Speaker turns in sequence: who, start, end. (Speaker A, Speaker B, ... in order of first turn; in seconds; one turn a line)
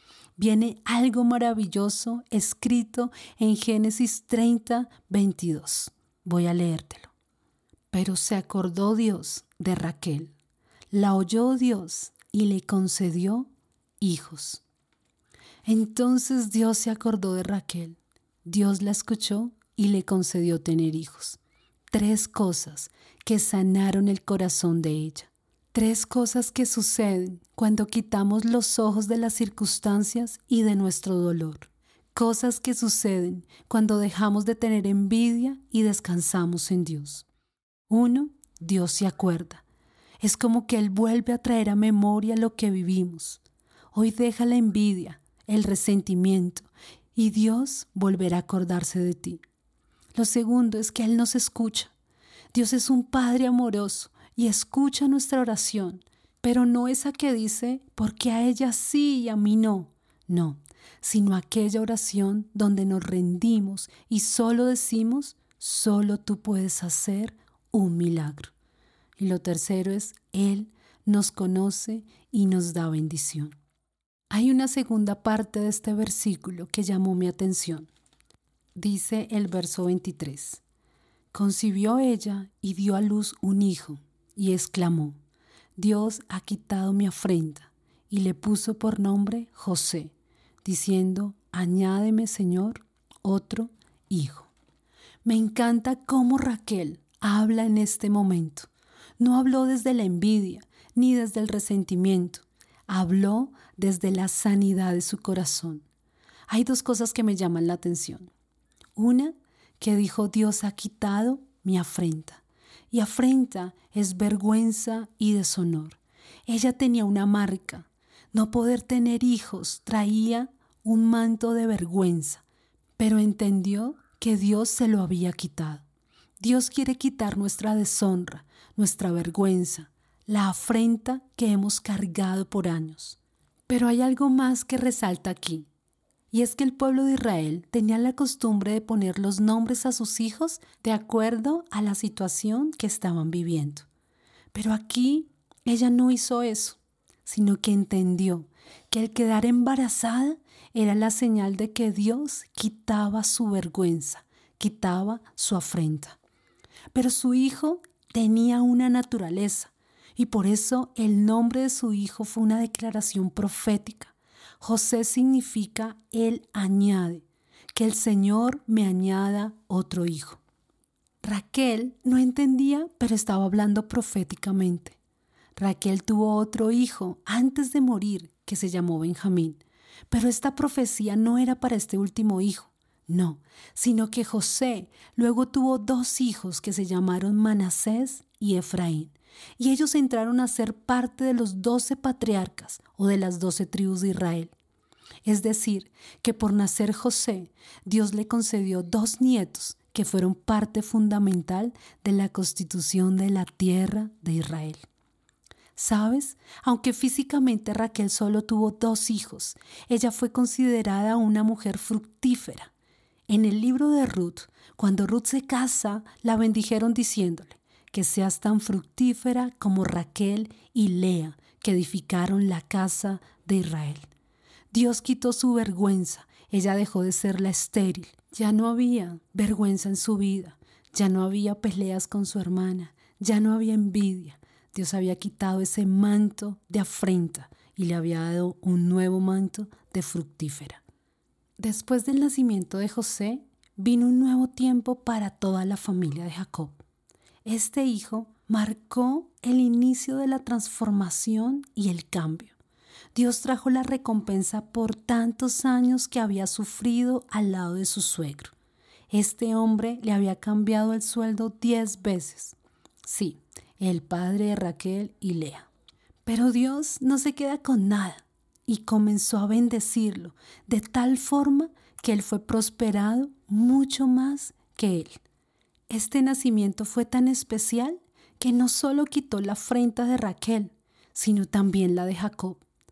Speaker A: 0.3-7.1
Speaker A: 7.9-10.3
Speaker A: 10.9-14.6
Speaker A: 15.6-21.4
Speaker A: 21.9-37.3
Speaker A: 37.9-39.6
Speaker A: 40.2-43.4
Speaker A: 43.9-49.4
Speaker A: 50.1-51.9
Speaker A: 52.5-68.5
Speaker A: 69.2-73.5
Speaker A: 74.3-77.9
Speaker A: 78.7-80.6
Speaker A: 81.3-85.2
Speaker A: 85.8-94.5
Speaker A: 95.2-105.8
Speaker A: 106.5-108.3
Speaker A: 109.0-122.4
Speaker A: 123.0-125.8
Speaker A: 126.4-135.7
Speaker A: 136.3-143.8
Speaker A: 144.5-156.2
Speaker A: 156.9-170.4
Speaker A: 171.2-175.0
Speaker A: 175.6-194.5
Speaker A: 195.2-204.8
Speaker A: 205.8-212.7
Speaker A: 213.3-224.1
Speaker A: 224.7-240.8
Speaker A: 241.6-246.8
Speaker A: 247.4-252.6
Speaker A: 253.1-258.5
Speaker A: 259.1-265.7
Speaker A: 266.2-275.2
Speaker A: 275.9-282.6